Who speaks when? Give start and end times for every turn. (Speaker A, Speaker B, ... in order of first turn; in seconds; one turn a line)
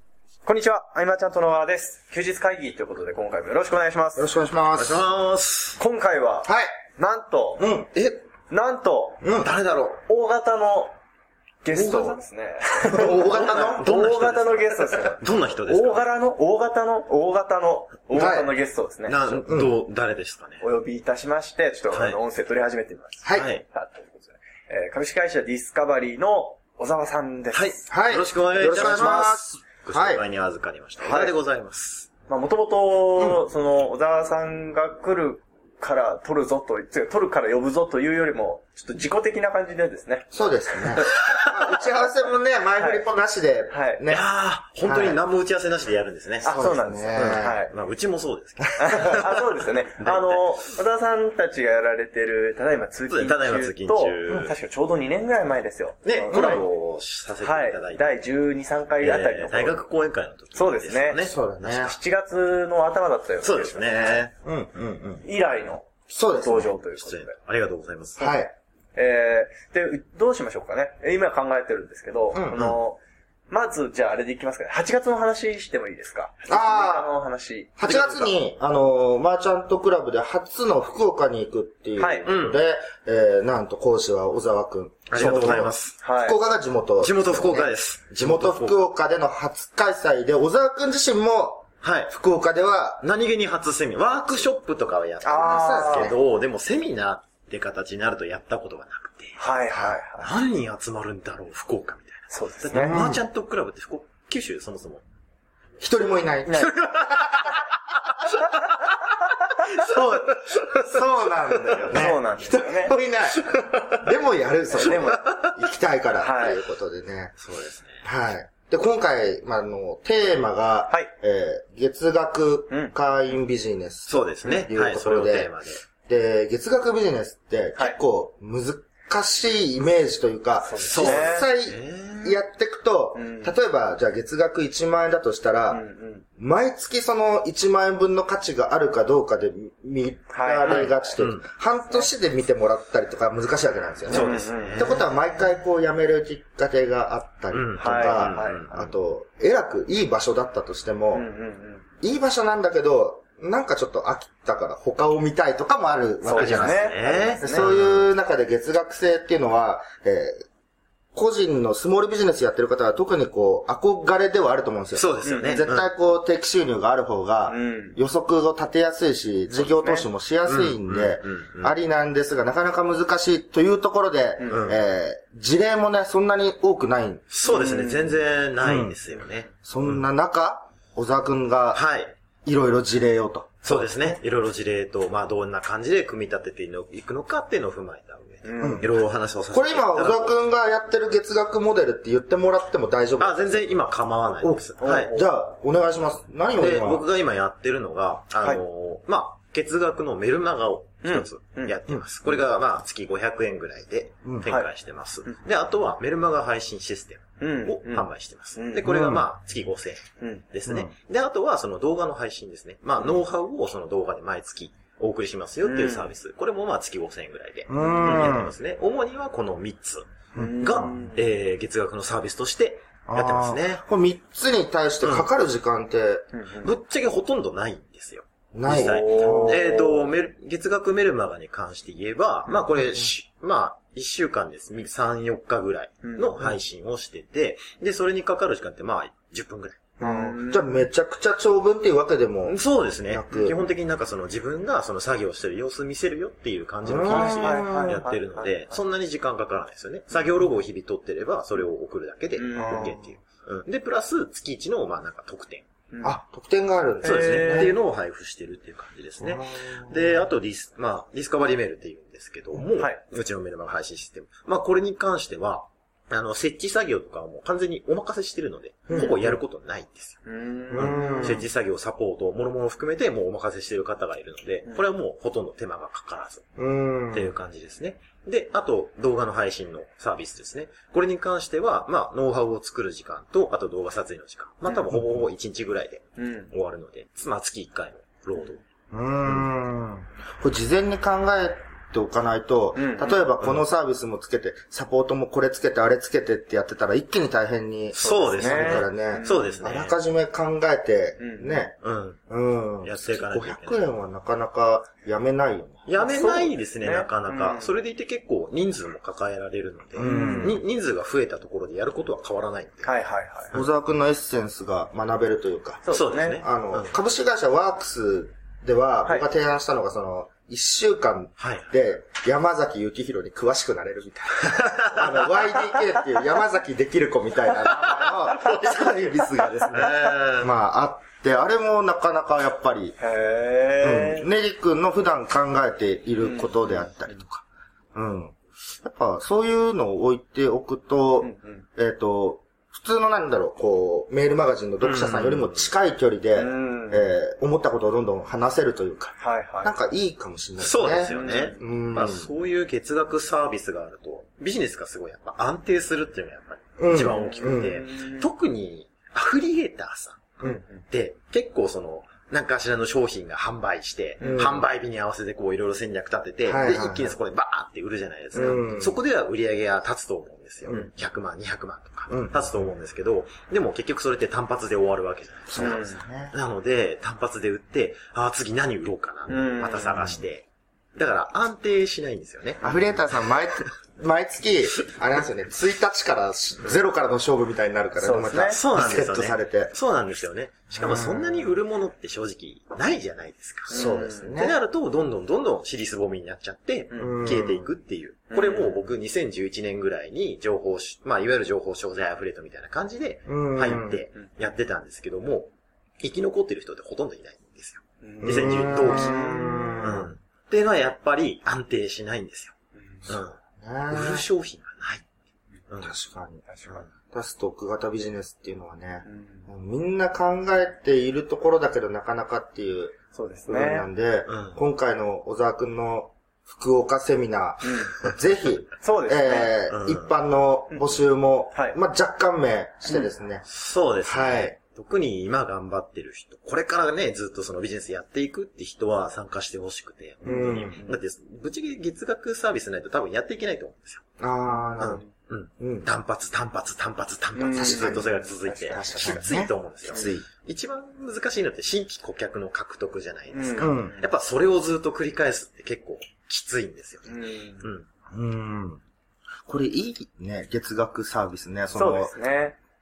Speaker A: 0.5-4.3
Speaker B: 4.2-5.1
Speaker C: 4.8-5.8
Speaker A: 5.8-7.7
Speaker B: 6.5-6.7
Speaker B: 7.6-8.0
Speaker A: 8.5-9.2
Speaker B: 9.2-9.5
Speaker C: 9.3-10.0
Speaker A: 10.1-11.0
Speaker A: 11.6-19.4
Speaker C: 11.7-12.2
Speaker B: 12.9-13.9
Speaker C: 12.9-16.1
Speaker B: 18.1-18.5
Speaker C: 19.1-20.6
Speaker B: 19.5-19.7
Speaker A: 20.6-27.8
Speaker C: 21.9-22.2
Speaker B: 23.2-23.5
Speaker C: 23.4-23.6
Speaker C: 27.5-32.1
Speaker B: 27.9-30.2
Speaker A: 28.6-29.4
Speaker A: 31.0-31.3
Speaker A: 32.3-41.5
Speaker B: 40.3-44.3
Speaker A: 42.8-43.0
Speaker A: 43.7-44.0
Speaker C: 44.1-50.6
Speaker B: 44.8-45.2
Speaker A: 46.4-47.7
Speaker B: 46.5-47.6
Speaker A: 48.8-56.7
Speaker C: 53.1-54.5
Speaker C: 56.0-58.3
Speaker A: 57.4-59.9
Speaker C: 59.0-61.9
Speaker A: 60.5-64.2
Speaker B: 61.2-62.0
Speaker C: 63.4-64.3
Speaker B: 64.2-65.3
Speaker A: 65.2-67.3
Speaker B: 66.1-66.8
Speaker C: 67.0-68.3
Speaker B: 68.2-68.5
Speaker A: 69.0-73.0
Speaker B: 72.3-72.8
Speaker A: 73.5-78.3
Speaker B: 76.5-77.1
Speaker B: 77.8-93.0
Speaker A: 82.0-82.2
Speaker C: 82.2-82.6
Speaker C: 85.1-85.9
Speaker A: 85.2-86.4
Speaker C: 87.0-88.8
Speaker C: 91.8-92.1
Speaker C: 93.0-105.0
Speaker A: 95.2-96.1
Speaker B: 95.2-96.2
Speaker A: 99.4-100.3
Speaker A: 102.3-103.0
Speaker B: 102.7-103.2
Speaker B: 105.8-107.5
Speaker A: 106.5-106.7
Speaker C: 106.6-107.6
Speaker C: 109.7-110.9
Speaker B: 109.8-117.3
Speaker C: 111.7-111.9
Speaker A: 111.9-113.0
Speaker A: 114.7-115.2
Speaker A: 116.2-116.6
Speaker C: 117.4-118.0
Speaker B: 118.0-125.5
Speaker C: 124.1-125.8
Speaker B: 126.1-135.8
Speaker A: 130.6-131.5
Speaker C: 130.9-132.4
Speaker A: 133.2-133.6
Speaker A: 135.7-136.2
Speaker B: 136.4-151.3
Speaker A: 140.3-141.1
Speaker C: 140.7-141.4
Speaker C: 144.1-145.1
Speaker A: 144.1-145.0
Speaker C: 147.5-148.9
Speaker A: 147.8-148.6
Speaker A: 151.1-151.8
Speaker B: 152.0-160.4
Speaker A: 156.2-157.7
Speaker C: 156.3-158.1
Speaker B: 161.1-177.2
Speaker C: 164.9-165.9
Speaker A: 165.2-165.6
Speaker A: 167.5-168.0
Speaker A: 169.7-170.1
Speaker C: 170.5-171.8
Speaker C: 174.5-174.8
Speaker C: 177.3-180.0
Speaker A: 177.4-178.2
Speaker B: 178.6-179.0
Speaker B: 179.6-181.8
Speaker C: 181.7-182.1
Speaker B: 182.4-184.2
Speaker C: 183.6-190.3
Speaker A: 188.4-188.9
Speaker B: 188.6-188.9
Speaker B: 189.5-193.7
Speaker C: 193.2-195.1
Speaker B: 194.4-197.1
Speaker A: 194.8-195.3
Speaker C: 196.6-223.8
Speaker A: 201.0-201.8
Speaker A: 207.4-208.9
Speaker B: 208.8-209.3
Speaker B: 210.7-210.9
Speaker A: 215.6-216.1
Speaker B: 217.7-218.6
Speaker A: 217.8-218.3
Speaker B: 220.3-220.9
Speaker A: 220.4-221.2
Speaker B: 223.1-226.3
Speaker A: 226.3-226.7
Speaker C: 226.6-239.9
Speaker B: 228.5-229.7
Speaker A: 228.7-230.1
Speaker A: 236.0-236.4
Speaker A: 240.0-240.8
Speaker B: 240.0-243.6
Speaker C: 242.5-255.7
Speaker B: 246.8-248.1
Speaker A: 247.1-248.7
Speaker A: 252.4-253.0
Speaker B: 252.6-253.1
Speaker A: 255.9-256.2
Speaker B: 256.0-257.8
Speaker A: 257.0-257.8
Speaker C: 257.0-270.2
Speaker B: 259.2-260.2
Speaker B: 268.9-269.4
Speaker A: 270.3-271.4
Speaker B: 270.7-271.4
Speaker C: 270.7-276.5
Speaker B: 276.6-277.3
Speaker C: 277.1-288.6
Speaker B: 284.9-285.2
Speaker A: 286.2-286.5
Speaker B: 288.9-301.8
Speaker A: 292.8-293.3
Speaker C: 297.9-299.9
Speaker A: 298.0-299.5
Speaker A: 301.2-301.7
Speaker C: 301.8-302.2
Speaker B: 302.3-305.9
Speaker C: 302.8-303.9
Speaker C: 305.9-312.9
Speaker A: 306.0-307.7
Speaker B: 310.0-310.6
Speaker A: 310.0-310.6
Speaker A: 312.8-313.5
Speaker B: 313.5-333.0
Speaker A: 315.9-316.4
Speaker C: 315.9-316.9
Speaker C: 321.4-321.7
Speaker C: 324.5-325.1
Speaker C: 328.1-328.7
Speaker C: 329.7-330.5
Speaker A: 333.0-334.2
Speaker B: 333.8-352.3
Speaker A: 336.2-337.2
Speaker A: 341.2-341.6
Speaker C: 344.8-345.7
Speaker A: 346.4-347.1
Speaker A: 349.2-349.7
Speaker C: 350.6-383.0
Speaker A: 351.1-351.6
Speaker B: 356.8-357.9
Speaker A: 357.0-358.3
Speaker A: 360.4-360.8
Speaker A: 364.2-364.6
Speaker B: 364.2-364.6
Speaker B: 366.5-367.2
Speaker B: 368.3-369.0
Speaker A: 368.4-368.6
Speaker B: 372.1-372.5
Speaker B: 375.5-376.4
Speaker A: 375.6-376.0
Speaker A: 379.3-380.1
Speaker B: 382.6-389.7
Speaker A: 388.0-388.6
Speaker C: 388.5-412.5
Speaker B: 390.7-391.5
Speaker A: 393.7-394.3
Speaker B: 393.7-394.6
Speaker A: 396.9-397.3
Speaker B: 397.0-397.7
Speaker A: 398.3-398.9
Speaker B: 403.3-404.0
Speaker A: 408.0-409.9
Speaker B: 408.2-410.1
Speaker A: 412.8-413.1
Speaker C: 413.1-413.4
Speaker B: 413.1-414.3
Speaker C: 413.9-415.0
Speaker B: 415.8-423.0
Speaker A: 416.5-416.9
Speaker A: 419.1-419.5
Speaker A: 423.1-423.9
Speaker B: 423.5-433.4
Speaker C: 424.3-424.6
Speaker A: 427.6-427.9
Speaker A: 428.8-429.6
Speaker C: 429.7-430.1
Speaker C: 433.5-444.0
Speaker B: 434.0-434.6
Speaker B: 440.2-440.9
Speaker A: 440.2-441.0
Speaker B: 444.2-445.0
Speaker C: 444.8-457.9
Speaker B: 445.6-445.9
Speaker A: 447.4-449.3
Speaker B: 447.6-448.1
Speaker B: 448.7-450.2
Speaker A: 453.3-454.1
Speaker B: 453.6-454.0
Speaker A: 457.1-457.7
Speaker B: 458.1-458.8
Speaker B: 459.5-462.1
Speaker A: 461.8-462.6